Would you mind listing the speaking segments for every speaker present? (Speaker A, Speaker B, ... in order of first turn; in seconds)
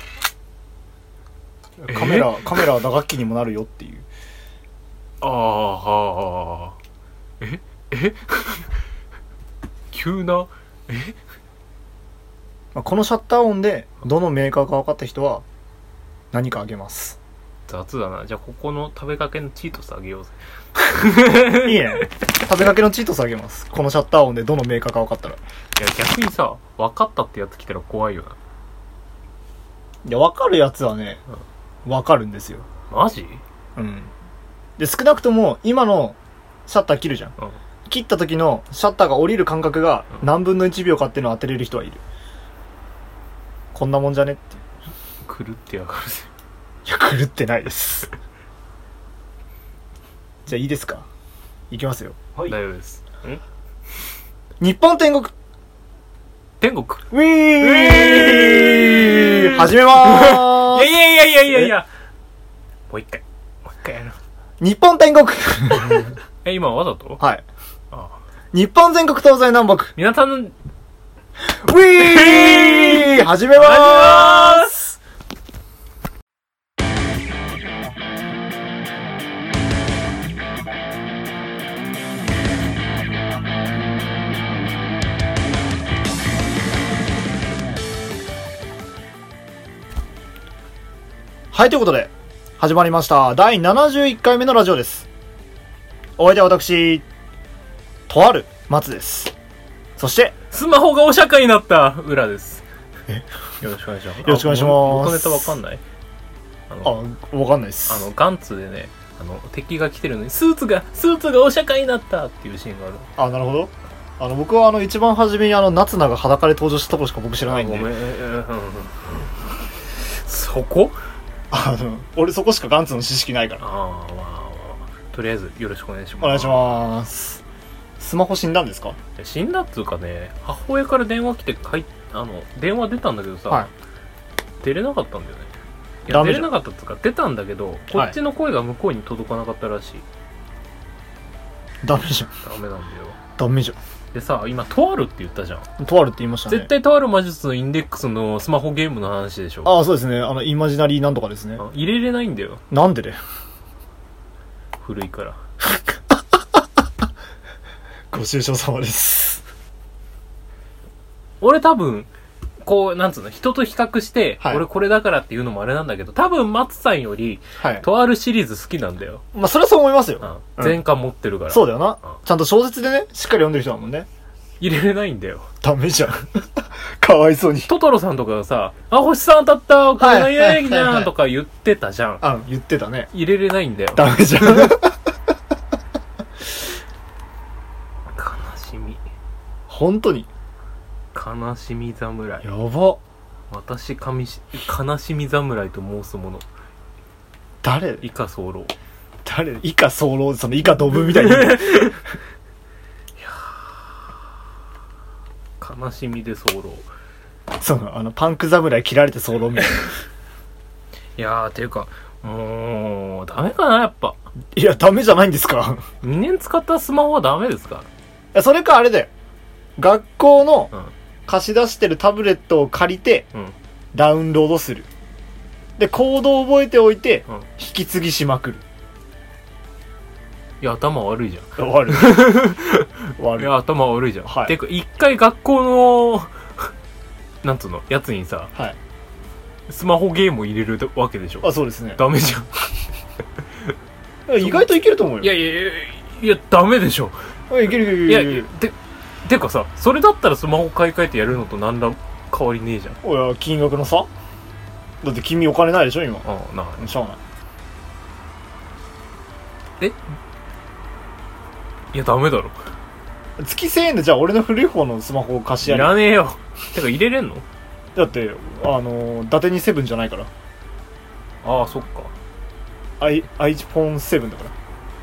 Speaker A: 1.8-4.1, 12.7-15.4, 16.3-17.2, 21.6-25.4, 30.0-31.2, 31.8-32.7, 33.8-34.1, 34.8-37.3, 37.9-42.0, 43.7-44.6, 46.9-48.1, 50.5-51.0, 51.7-52.5, 54.6-55.3, 57.1-60.9, 64.6-66.2, 67.2-67.4, 68.5-69.9, 71.5-74.8, 91.5-95.1, 96.2-97.0, 98.1-99.3, 100.0-100.3, 104.2-105.5, 106.8-108.1, 113.2-117.9, 121.5-123.6, 126.2-127.4, 128.0-129.0, 136.1-136.5, 141.8-142.3, 143.4-143.8, 145.8-146.7, 149.6-151.6, 152.7-153.2, 158.1-159.4, 167.6-167.8, 169.3-170.8, 171.5-174.1, 175.6-177.7, 180.0-181.1, 182.2-183.1, 183.9-185.0, 189.7-190.3, 192.4-193.0, 197.6-198.0, 199.2-202.0, 207.6-209.9, 214.5-215.8, 218.3-219.1, 219.8-220.7, 221.3-223.3, 223.9-224.9, 225.8-228.6, 231.6-232.5, 233.2-233.5, 234.2-234.5, 241.4-242.0, 244.3-245.3, 247.5-248.5, 253.0-254.1, 255.0-256.2, 256.8-257.2, 263.4-266.0, 267.9-270.3, 273.0-274.5
Speaker B: 1.9-2.7, 5.2-6.8, 7.4-8.7, 9.9-11.2, 17.7-22.1, 25.8-28.4, 32.9-33.4, 45.2-46.3, 52.4-53.4, 56.6-61.9, 62.9-64.2, 66.4-67.2, 67.9-68.2, 70.0-70.5, 71.9-74.9, 100.5-102.6, 103.6-105.8, 106.7-107.0, 107.9-113.1, 117.4-121.0, 123.6-126.8, 129.2-133.7, 134.6-135.5, 136.1-140.0, 142.4-143.2, 144.1-145.7, 146.5-149.7, 151.6-152.6, 154.8-155.4, 161.4-162.1, 162.6-169.2, 170.2-172.2, 174.6-175.5, 177.7-182.2, 183.1-184.7, 188.1-189.0, 191.1-192.5, 193.5-196.4, 198.0-198.7, 201.3-201.9, 203.2-204.1, 205.6-206.9, 211.2-214.2, 216.0-217.9, 230.6-236.7, 237.4-238.5, 239.7-242.7, 244.4-247.2, 248.0-253.0, 256.2-256.9, 261.9-262.6, 265.6-267.4, 271.4-272.1